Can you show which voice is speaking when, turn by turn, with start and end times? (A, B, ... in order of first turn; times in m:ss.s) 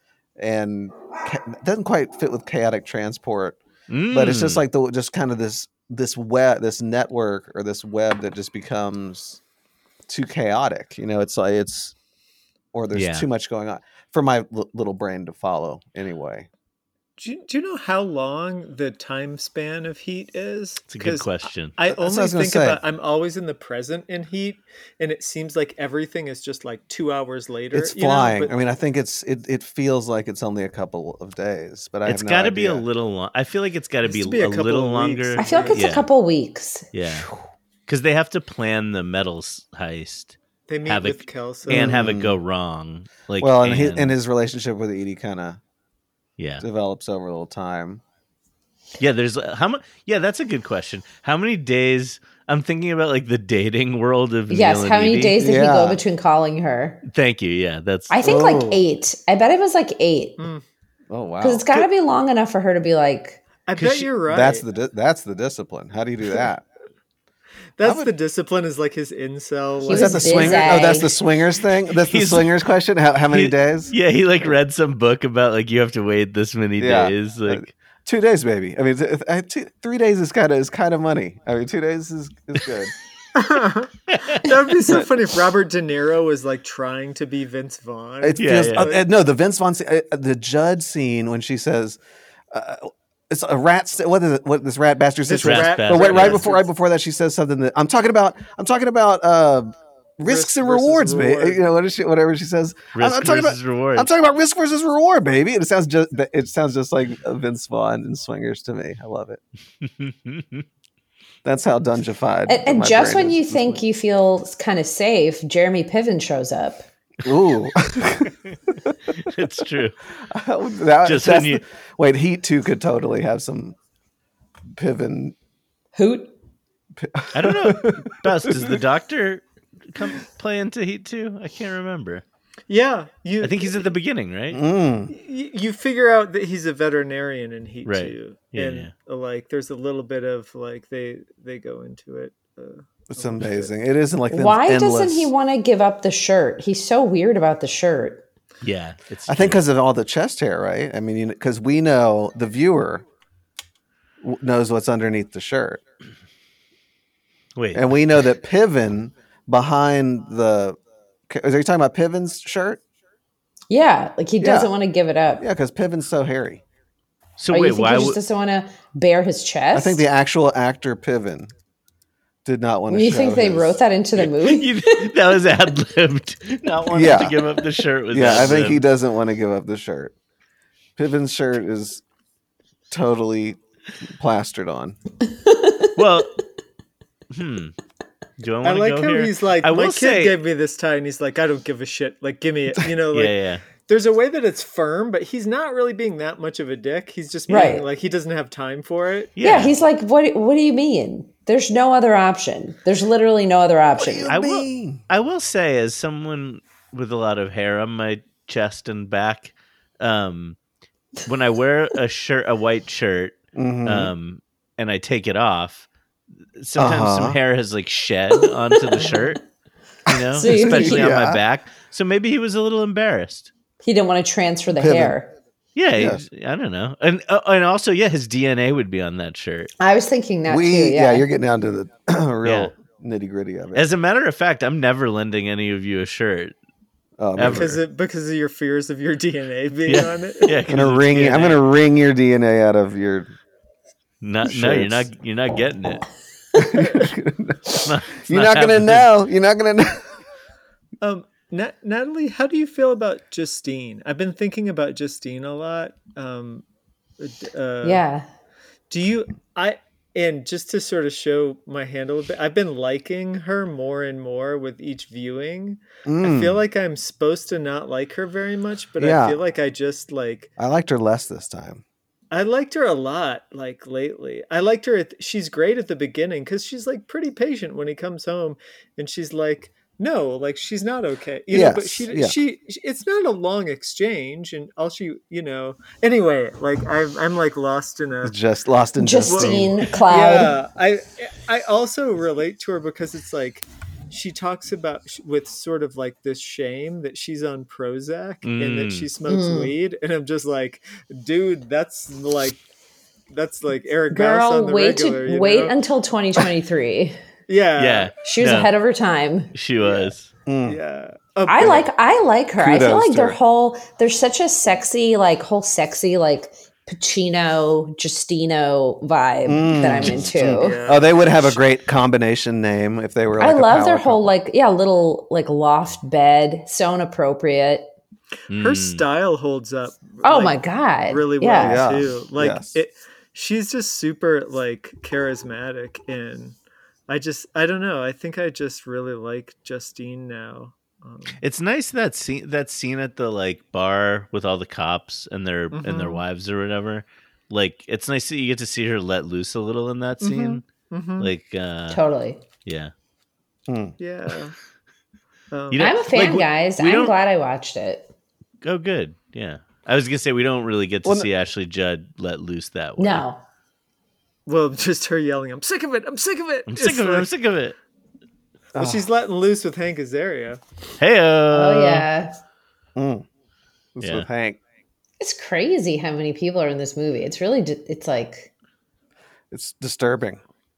0:00.4-0:03.6 A
0:03.9-0:04.6 B
0:04.1-0:09.4 A
0:10.1-0:11.9 A
0:12.7-0:16.5 A
0:12.9-0:13.3 B
0:17.2-0:28.6 C
0:20.9-0:21.7 B
0:21.9-0:22.8 A
0:27.7-0:32.8 A
0:32.0-0:36.1 B
0:34.0-0:35.8 C
0:35.4-0:36.9 D
0:36.9-0:37.3 B
0:37.9-0:44.1 B
0:40.7-0:42.0 C
0:41.7-0:42.4 A
0:43.4-0:45.6 A
0:46.4-0:46.6 B
0:46.6-0:48.0 A
0:49.0-0:55.4 B
0:54.5-0:57.0 D
0:55.4-0:56.0 A
0:57.0-0:58.2 B
0:58.1-1:00.4 D
0:58.2-0:58.8 A
1:00.4-1:00.6 C
1:01.1-1:01.9 A
1:01.4-1:03.4 D
1:03.6-1:04.6 C
1:03.8-1:04.1 B
1:04.2-1:06.6 A
1:07.8-1:11.0 C
1:07.8-1:08.1 A
1:09.8-1:11.1 D
1:09.9-1:14.5 A
1:12.0-1:12.6 B
1:13.3-1:17.7 B
1:16.8-1:22.9 A
1:23.3-1:29.0 C
1:24.1-1:24.5 B
1:28.2-1:32.0 A
1:28.4-1:28.9 B
1:32.5-1:49.4 A
1:35.2-1:36.7 C
1:35.4-1:36.4 B
1:40.2-1:41.6 C
1:42.9-1:44.1 B
1:49.8-1:50.6 B
1:51.4-1:53.8 A
1:52.5-1:56.8 D
1:57.2-1:59.0 A
1:59.2-2:00.0 B
2:00.3-2:03.8 A
2:01.0-2:01.6 B
2:04.7-2:05.3 A
2:05.9-2:06.3 D
2:07.0-2:08.8 A
2:07.3-2:12.2 B
2:12.7-2:13.9 C
2:13.4-2:14.6 B
2:14.5-2:15.1 A
2:15.1-2:23.7 C
2:17.8-2:18.9 B
2:23.1-2:25.3 A
2:24.3-2:28.2 D
2:28.6-2:29.6 B
2:29.3-2:33.0 A
2:34.2-2:35.8 A
2:37.6-2:37.9 B
2:37.7-2:40.8 A
2:41.3-2:42.8 A
2:43.7-2:45.4 D
2:44.4-2:44.7 A
2:45.4-2:46.6 A
2:47.4-2:48.2 B
2:47.5-2:50.0 D
2:49.7-2:51.5 A
2:52.4-2:53.8 A
2:52.9-2:55.1 D
2:54.2-2:58.8 B
2:56.9-2:57.4 A
2:58.1-3:00.1 A
3:01.0-3:02.0 A
3:02.9-3:05.0 A
3:05.4-3:05.9 D
3:05.9-3:06.3 B
3:07.3-3:07.7 B
3:08.4-3:10.4 B
3:08.6-3:19.4 C
3:13.1-3:13.6 B
3:17.5-3:17.8 D
3:19.4-3:19.7 B
3:19.4-3:24.3 D
3:24.0-3:25.0 A
3:24.3-3:30.6 B
3:31.2-3:35.9 B
3:33.5-3:34.1 A
3:36.6-3:39.4 B
3:36.8-3:37.4 A
3:40.1-3:43.5 B
3:40.3-3:41.1 D
3:40.4-3:41.4 A
3:43.8-3:45.3 D
3:44.7-3:45.2 A
3:45.7-3:49.7 B
3:45.9-3:46.2 A
3:49.8-3:51.2 D
3:50.5-3:53.9 A
3:52.4-3:52.7 B
3:53.7-3:56.5 B
3:57.2-3:57.8 A
3:57.4-3:57.8 B
3:57.4-4:00.6 C
3:59.9-4:01.6 B
4:00.7-4:03.3 A
4:04.2-4:06.0 B
4:04.4-4:05.1 A
4:06.5-4:10.1 A
4:07.8-4:09.1 B
4:11.0-4:16.6 C
4:17.2-4:18.0 C
4:17.8-4:18.2 D
4:18.9-4:30.5 C
4:26.0-4:26.6 A
4:29.0-4:29.4 A
4:30.6-4:31.8 A
4:32.3-4:48.3 C
4:41.5-4:42.4 A
4:48.2-4:49.8 A
4:49.0-4:50.6 D
4:49.2-5:02.6 C
4:58.4-4:59.1 B
4:59.2-4:59.7 D
5:03.3-5:05.8 C
5:04.1-5:07.2 D
5:07.5-5:08.1 C
5:07.8-5:08.7 B
5:08.2-5:09.5 D
5:09.5-5:10.3 B
5:09.8-5:10.1 C
5:10.4-5:10.8 A
5:10.6-5:11.8 C
5:11.4-5:20.8 D
5:12.6-5:13.4 A
5:19.4-5:24.3 A
5:20.4-5:21.5 C
5:23.4-5:27.9 D
5:28.5-5:29.0 B
5:28.5-5:41.4 C
5:30.2-5:31.8 D
5:31.5-5:32.8 A
5:41.4-5:50.6 B
5:45.7-5:46.2 C
5:50.2-5:51.3 C
5:51.2-5:52.0 B
5:51.9-5:52.4 D
5:52.6-5:52.9 B
5:53.7-5:53.9 A
5:54.0-5:54.5 C
5:55.5-5:55.9 C
5:55.7-5:57.1 B
5:55.8-5:58.1 D
5:58.6-6:03.2 B
6:03.0-6:03.4 D
6:04.4-6:07.3 C
6:06.7-6:07.8 B
6:08.7-6:09.1 A
6:08.8-6:10.6 C
6:11.0-6:12.0 B
6:11.5-6:12.3 D
6:13.0-6:13.2 A
6:14.0-6:14.6 A
6:14.0-6:14.3 B
6:15.2-6:18.5 D
6:19.5-6:20.4 A